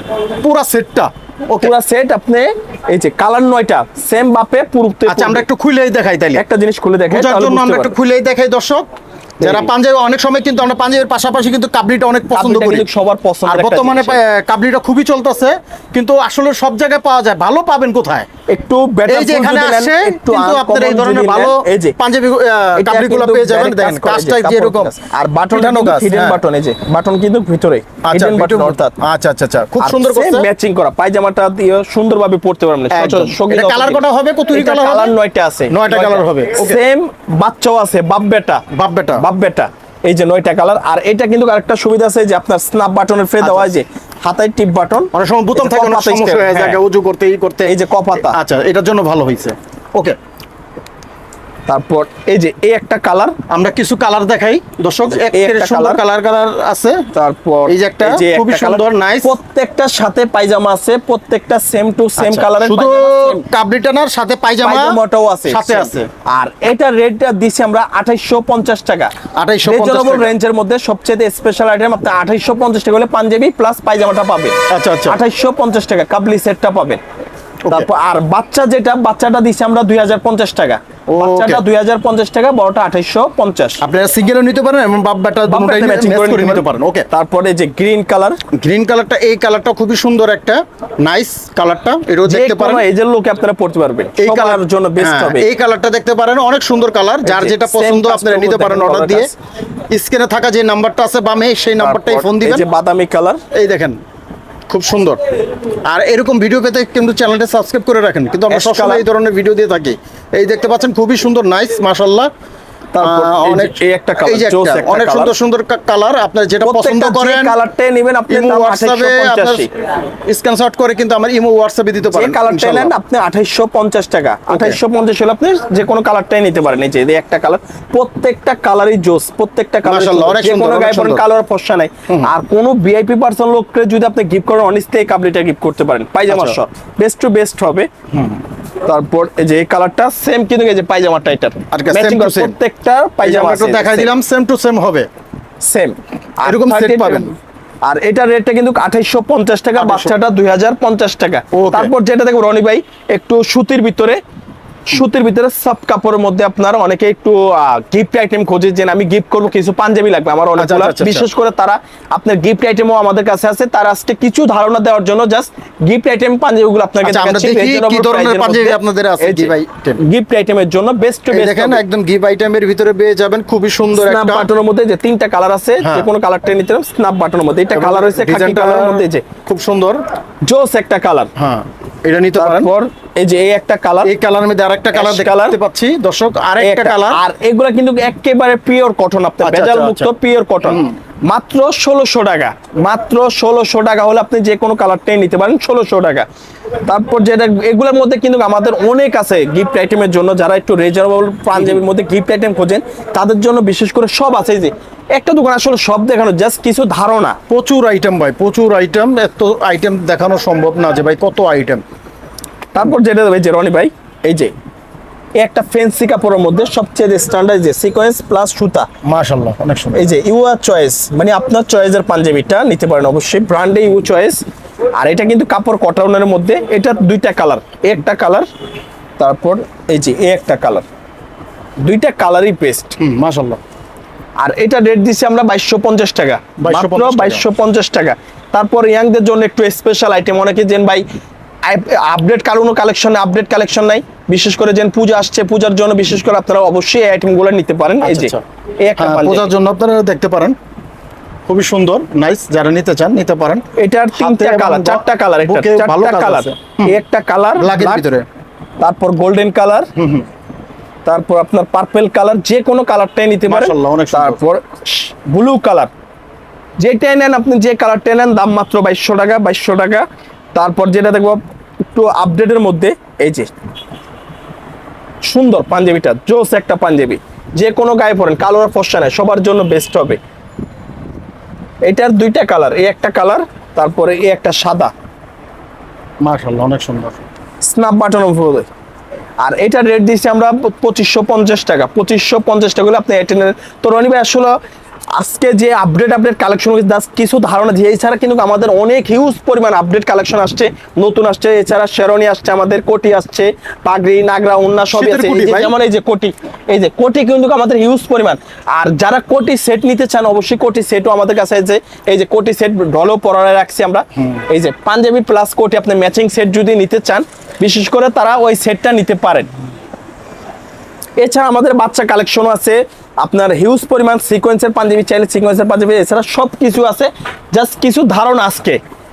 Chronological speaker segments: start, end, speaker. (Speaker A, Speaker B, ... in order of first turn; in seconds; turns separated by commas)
Speaker A: 0.4-1.7, Speaker B: 1.6-5.4, Speaker A: 5.1-6.4, Speaker B: 6.3-8.0, Speaker A: 7.1-8.8, Speaker B: 9.4-9.7, Speaker A: 9.4-12.8, Speaker B: 12.3-14.2, Speaker A: 13.4-18.3, Speaker B: 18.5-21.9, Speaker A: 19.1-24.9, Speaker B: 22.8-28.9, Speaker A: 25.5-26.4, Speaker A: 28.0-30.5, Speaker B: 29.8-38.6, Speaker A: 32.9-35.1, Speaker A: 35.7-36.8, Speaker A: 38.7-39.2, Speaker B: 39.2-46.8, Speaker A: 43.4-43.7, Speaker A: 45.1-50.2, Speaker B: 47.6-48.4, Speaker B: 51.7-53.4, Speaker A: 53.5-57.1, Speaker B: 55.2-56.0, Speaker B: 57.1-63.4, Speaker A: 57.7-59.3, Speaker A: 62.2-66.1, Speaker B: 64.6-69.1, Speaker A: 69.3-70.3, Speaker B: 69.7-77.0, Speaker A: 74.7-75.2, Speaker B: 77.7-83.8, Speaker A: 81.1-81.6, Speaker A: 83.8-87.1, Speaker B: 85.5-88.4, Speaker A: 88.5-92.8, Speaker B: 92.2-95.5, Speaker A: 94.2-99.3, Speaker B: 97.2-99.3, Speaker A: 99.9-102.7, Speaker B: 101.8-103.4, Speaker A: 103.5-104.0, Speaker A: 104.7-105.2, Speaker A: 105.8-112.3, Speaker B: 108.5-109.0, Speaker B: 112.9-115.3, Speaker A: 113.0-117.6, Speaker B: 116.6-119.7, Speaker A: 118.3-119.7, Speaker A: 120.3-122.9, Speaker B: 122.1-137.9, Speaker A: 124.5-124.8, Speaker A: 129.8-131.2, Speaker A: 136.3-136.6, Speaker A: 138.1-138.4, Speaker B: 138.8-144.1, Speaker A: 141.7-142.5, Speaker A: 143.2-145.1, Speaker B: 145.6-154.2, Speaker A: 146.4-147.3, Speaker A: 149.8-150.1, Speaker A: 151.5-151.9, Speaker B: 154.9-171.8, Speaker A: 160.6-161.3, Speaker A: 167.0-170.0, Speaker A: 171.3-174.5, Speaker B: 173.9-179.2, Speaker A: 175.8-176.1, Speaker A: 177.7-180.0, Speaker B: 180.4-181.3, Speaker A: 181.4-182.7, Speaker B: 182.4-184.1, Speaker A: 184.0-187.2, Speaker B: 184.9-185.6, Speaker B: 186.6-196.3, Speaker A: 189.4-190.9, Speaker B: 196.8-207.4, Speaker A: 201.5-201.8, Speaker A: 207.5-211.8, Speaker B: 212.7-214.5, Speaker B: 215.4-218.9, Speaker A: 219.0-220.1, Speaker B: 219.9-224.4, Speaker B: 224.9-228.5, Speaker B: 229.2-230.8, Speaker B: 231.8-233.0, Speaker A: 233.0-233.6, Speaker B: 234.4-241.0, Speaker A: 236.6-237.5, Speaker B: 241.7-249.5, Speaker A: 248.0-248.4, Speaker A: 249.0-250.6, Speaker A: 251.5-253.6, Speaker B: 253.8-258.0, Speaker A: 254.1-257.0, Speaker A: 257.6-258.2, Speaker B: 258.8-259.9, Speaker A: 259.9-260.2, Speaker B: 261.1-265.9, Speaker A: 263.5-264.4, Speaker B: 266.8-271.4, Speaker B: 271.9-273.5, Speaker B: 275.2-280.2, Speaker B: 281.8-284.9, Speaker A: 286.2-287.2, Speaker B: 287.6-288.7, Speaker B: 289.4-294.5, Speaker B: 295.1-319.5, Speaker A: 304.9-305.7, Speaker B: 321.2-328.8